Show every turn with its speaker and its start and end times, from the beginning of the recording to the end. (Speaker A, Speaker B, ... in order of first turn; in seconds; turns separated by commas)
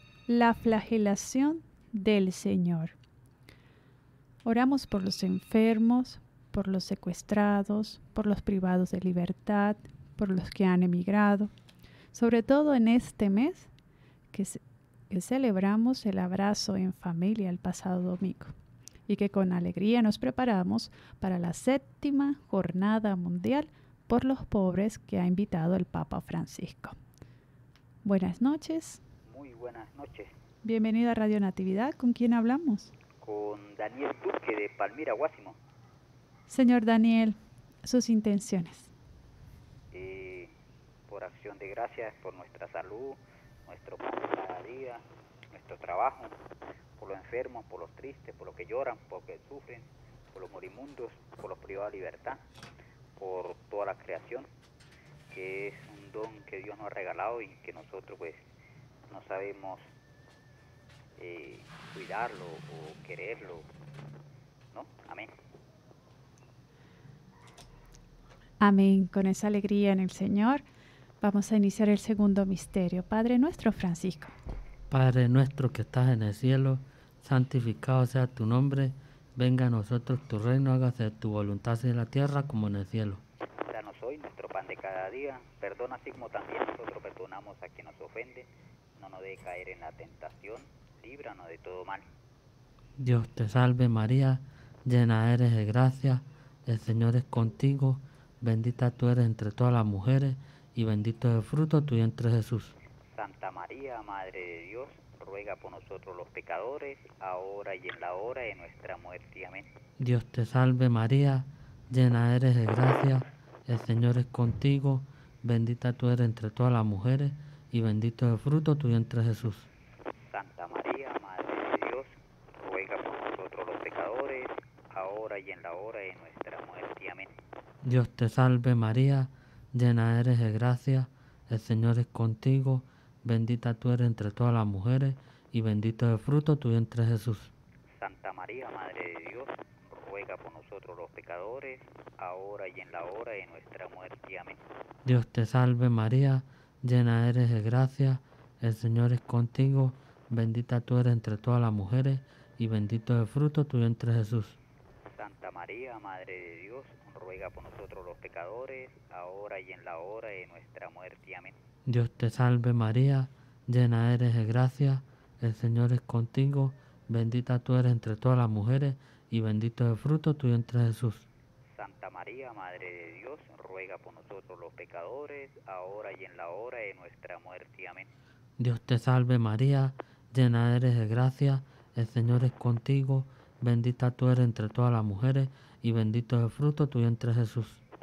Speaker A: 0.3-2.9, Speaker A: 4.4-11.5, Speaker A: 12.1-13.7, Speaker A: 14.3-18.5, Speaker A: 19.1-26.9, Speaker A: 28.0-29.0, Speaker B: 29.3-30.3, Speaker A: 30.6-32.9, Speaker B: 33.2-35.6, Speaker A: 36.5-38.9, Speaker B: 39.9-40.5, Speaker B: 41.1-46.3, Speaker B: 47.0-52.4, Speaker B: 53.2-54.5, Speaker B: 55.3-58.4, Speaker B: 59.1-59.8, Speaker B: 61.2-63.6, Speaker B: 64.7-65.3, Speaker A: 68.6-70.6, Speaker A: 71.2-74.3, Speaker C: 74.9-83.2, Speaker B: 83.6-92.0, Speaker C: 93.0-102.8, Speaker B: 103.1-109.7, Speaker C: 110.0-119.7, Speaker B: 120.3-127.3, Speaker C: 127.8-137.5, Speaker B: 138.0-144.6, Speaker C: 145.0-154.6, Speaker B: 155.1-161.6, Speaker C: 161.9-171.3, Speaker B: 171.8-178.1, Speaker C: 178.6-187.8